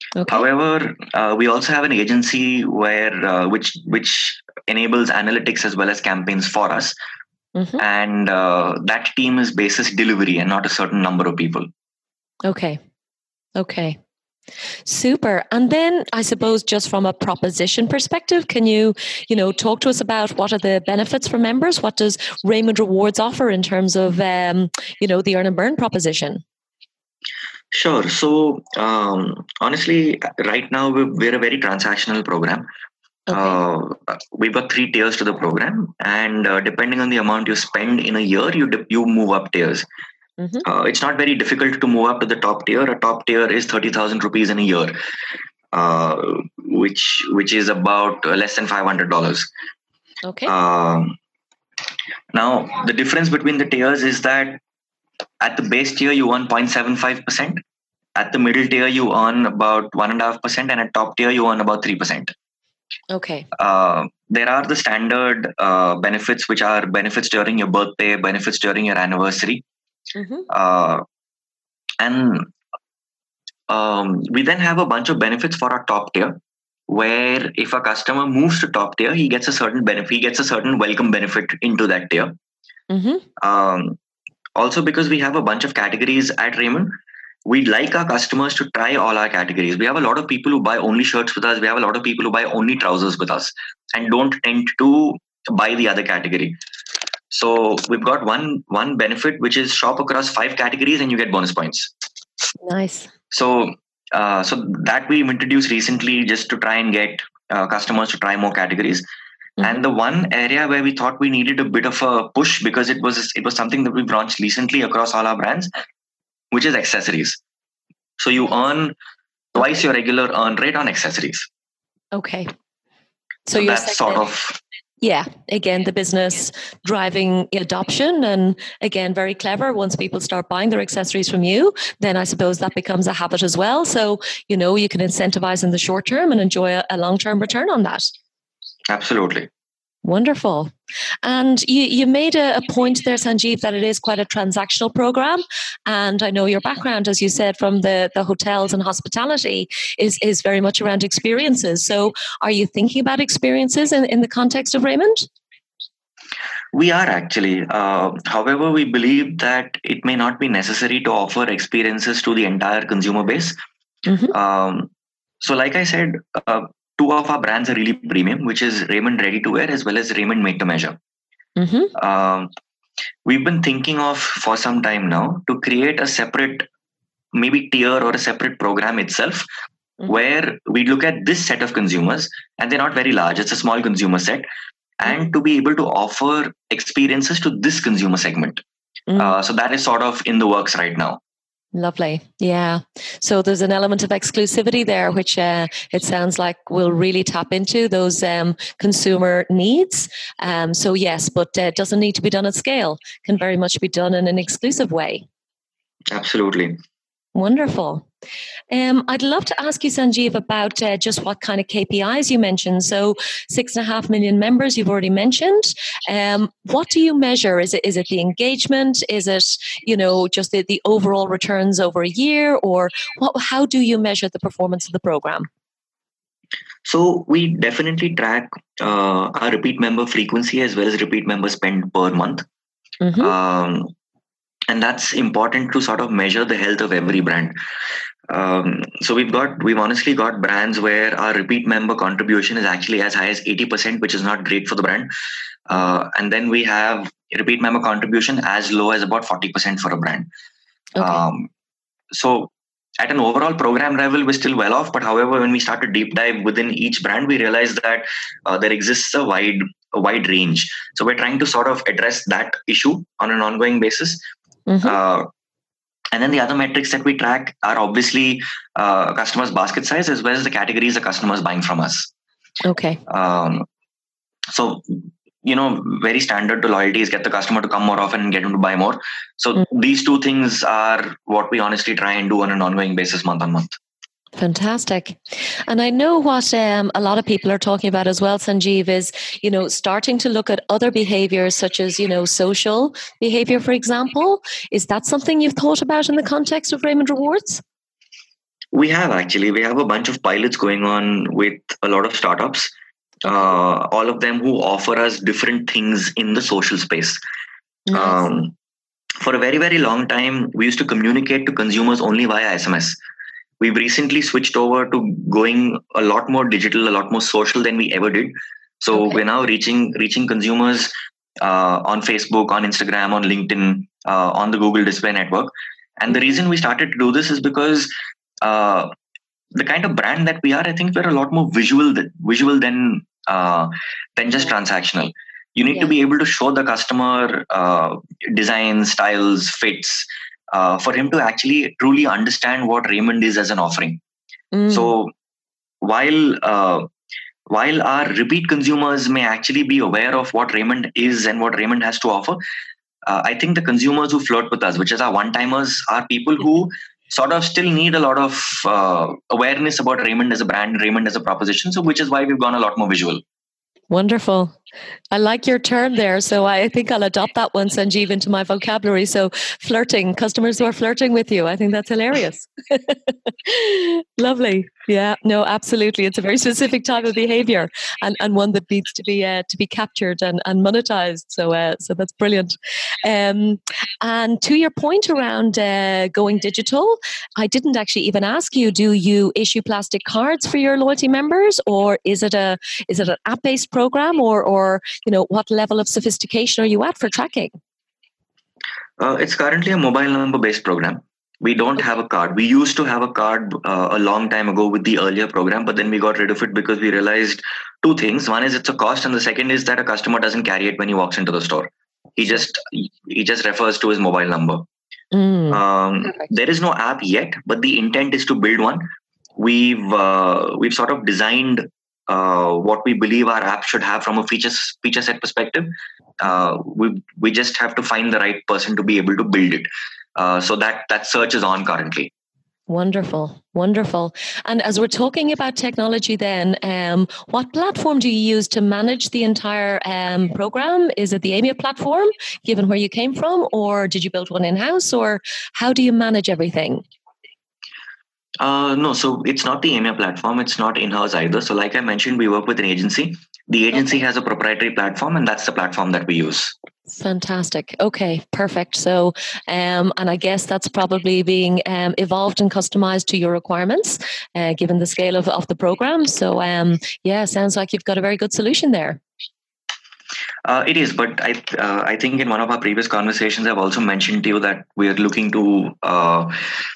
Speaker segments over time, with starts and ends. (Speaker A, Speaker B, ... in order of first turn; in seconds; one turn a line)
Speaker A: 0.1-0.5
Speaker B: 0.3-6.9
Speaker A: 7.5-7.8
Speaker B: 7.8-11.7
Speaker A: 12.4-12.8
Speaker A: 13.6-14.0
Speaker A: 14.8-26.4
Speaker B: 27.7-32.7
Speaker A: 33.3-33.6
Speaker B: 33.3-39.9
Speaker A: 40.4-40.6
Speaker B: 40.6-44.9
Speaker B: 45.7-49.5
Speaker A: 50.2-50.5
Speaker B: 50.5-51.2
Speaker B: 52.3-54.6
Speaker B: 55.4-57.6
Speaker B: 58.1-62.3
Speaker A: 63.1-63.5
Speaker B: 63.5-69.6
Speaker A: 70.1-70.5
Speaker B: 70.5-71.0
Speaker B: 72.0-72.5
Speaker B: 73.7-82.3
Speaker A: 82.9-83.2
Speaker B: 83.4-84.0
Speaker B: 84.6-86.9
Speaker B: 87.5-96.6
Speaker B: 97.3-101.9
Speaker A: 102.6-103.1
Speaker B: 103.3-109.0
Speaker B: 109.6-115.7
Speaker B: 116.5-117.4
Speaker B: 118.2-119.0
Speaker B: 119.5-121.5
Speaker A: 122.1-122.5
Speaker A: 123.5-124.3
Speaker B: 123.5-124.6
Speaker A: 125.0-138.1
Speaker B: 138.9-139.5
Speaker A: 140.0-155.3
Speaker B: 156.7-163.6
Speaker A: 164.1-164.3
Speaker B: 164.3-164.9
Speaker B: 165.4-171.0
Speaker A: 171.6-171.9
Speaker B: 171.9-172.5
Speaker B: 173.2-176.7
Speaker B: 177.3-179.4
Speaker B: 180.1-184.5
Speaker B: 185.0-188.6
Speaker A: 189.1-189.3
Speaker B: 189.2-191.2
Speaker A: 191.7-205.2
Speaker B: 206.1-206.8
Speaker A: 207.3-208.1
Speaker A: 208.7-225.5
Speaker B: 226.8-232.4
Speaker A: 233.0-233.3
Speaker B: 233.2-233.9
Speaker B: 234.7-237.5
Speaker B: 238.3-245.1
Speaker B: 245.7-250.3
Speaker A: 251.0-251.2
Speaker B: 251.0-251.5
Speaker B: 252.1-264.2
Speaker A: 264.7-265.0
Speaker B: 264.8-265.3
Speaker B: 266.1-272.1
Speaker A: 272.6-273.0
Speaker B: 273.1-273.6
Speaker B: 274.5-283.8
Speaker A: 284.4-297.6
Speaker B: 298.7-302.7
Speaker B: 303.2-307.2
Speaker A: 303.2-303.5
Speaker A: 307.9-308.2
Speaker B: 307.9-308.5
Speaker B: 309.2-313.0
Speaker B: 313.6-327.9
Speaker B: 328.4-328.9
Speaker B: 329.5-344.0
Speaker A: 344.5-344.9
Speaker B: 344.7-345.1
Speaker B: 345.8-346.9
Speaker B: 347.5-352.4
Speaker B: 353.0-363.2
Speaker A: 363.9-364.6
Speaker A: 365.1-397.5
Speaker B: 399.0-414.6
Speaker A: 415.1-415.6
Speaker B: 415.5-432.1
Speaker A: 432.7-446.8
Speaker B: 448.4-456.5
Speaker A: 456.9-469.0
Speaker B: 470.4-476.6